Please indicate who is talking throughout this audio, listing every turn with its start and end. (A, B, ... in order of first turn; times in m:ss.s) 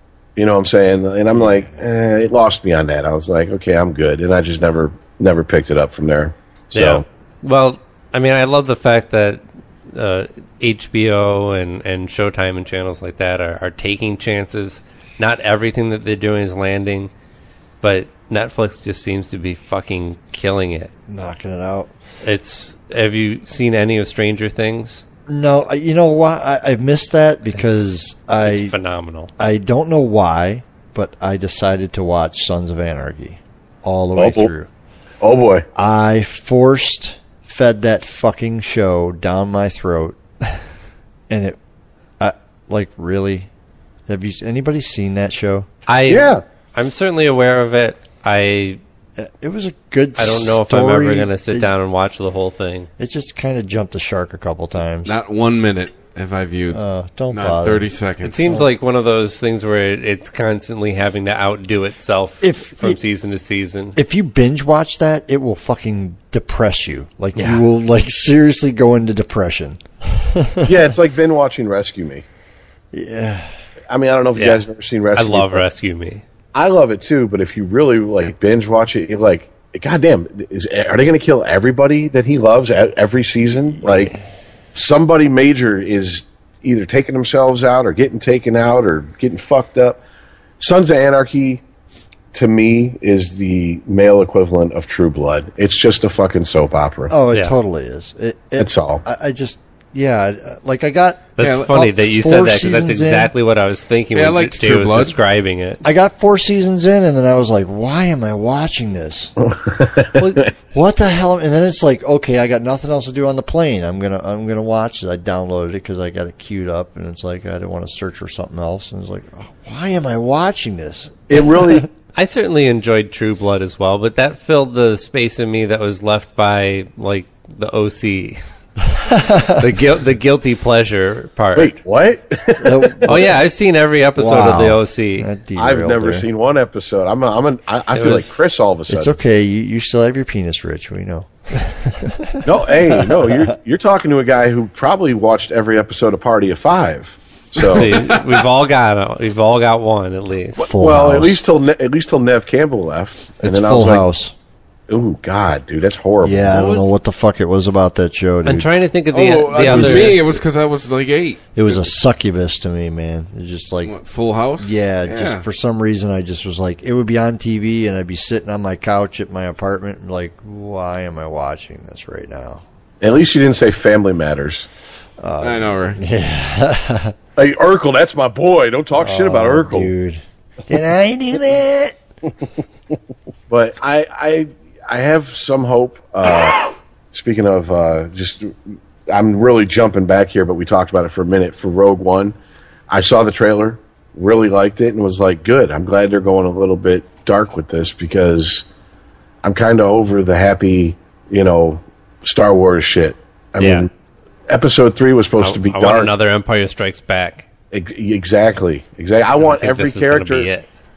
0:00.4-0:07.0 A
0:01.3-0:01.8 B
0:06.7-0:17.1 C
0:17.8-0:20.9 C
0:21.1-0:21.9 B
0:22.2-0:25.0 C
0:25.3-0:28.7 B
0:28.3-0:29.3 C
0:29.4-0:34.7 B
0:34.2-0:34.5 A
0:35.2-0:35.6 A
0:35.8-0:40.2 B
0:41.3-0:41.6 B
0:42.2-0:43.5 B
0:44.1-0:45.7 B
0:45.9-0:48.8 C
0:46.1-0:46.4 A
0:49.2-0:51.7 B
0:50.2-0:52.9 C
0:53.0-0:55.1 B
0:55.0-0:58.6 D
0:56.7-0:57.9 B
0:58.2-1:04.0 C
0:58.4-0:58.7 B
1:02.4-1:03.0 B
1:03.9-1:10.9 B
1:07.4-1:07.6 C
1:10.6-1:12.2 A
1:12.9-1:13.5 B
1:13.9-1:15.6 A
1:14.3-1:14.6 C
1:15.1-1:16.2 C
1:16.5-1:24.1 A
1:23.8-1:24.2 B
1:24.7-1:30.0 A
1:30.6-1:31.6 A
1:32.3-1:37.1 A
1:37.1-1:43.3 B
1:37.3-1:37.6 C
1:38.6-1:39.0 A
1:41.4-1:45.8 C
1:41.4-1:41.7 D
1:44.1-1:45.2 D
1:45.8-1:49.3 B
1:49.4-1:50.5 A
1:50.2-1:50.4 C
1:50.7-2:01.9 B
2:01.3-2:01.9 A
2:02.1-2:08.4 C
2:08.9-2:09.7 B
2:09.6-2:11.8 C
2:11.6-2:13.3 A
2:12.6-2:13.4 B
2:13.1-2:15.3 C
2:14.2-2:16.3 B
2:15.6-2:19.2 A
2:17.9-2:18.3 C
2:18.9-2:23.5 B
2:22.4-2:27.9 A
2:27.7-2:30.6 C
2:30.6-2:34.0 A
2:30.6-2:31.4 B
2:33.4-2:34.3 B
2:34.9-2:36.7 A
2:36.2-2:38.7 B
2:36.5-2:36.9 C
2:38.4-2:40.2 C
2:39.1-2:41.8 D
2:39.6-2:40.2 B
2:41.5-2:43.9 B
2:43.8-2:45.4 D
2:44.6-2:52.6 B
2:53.0-2:54.7 A
2:55.2-2:57.2 B
2:55.4-2:56.0 D
2:57.4-2:59.9 A
2:58.9-3:02.0 B
3:03.5-3:12.3 A
3:12.9-3:18.6 A
3:19.4-3:23.9 A
3:23.6-3:23.9 C
3:24.5-3:26.1 A
3:25.4-3:27.4 C
3:27.7-3:30.5 A
3:29.4-3:30.7 C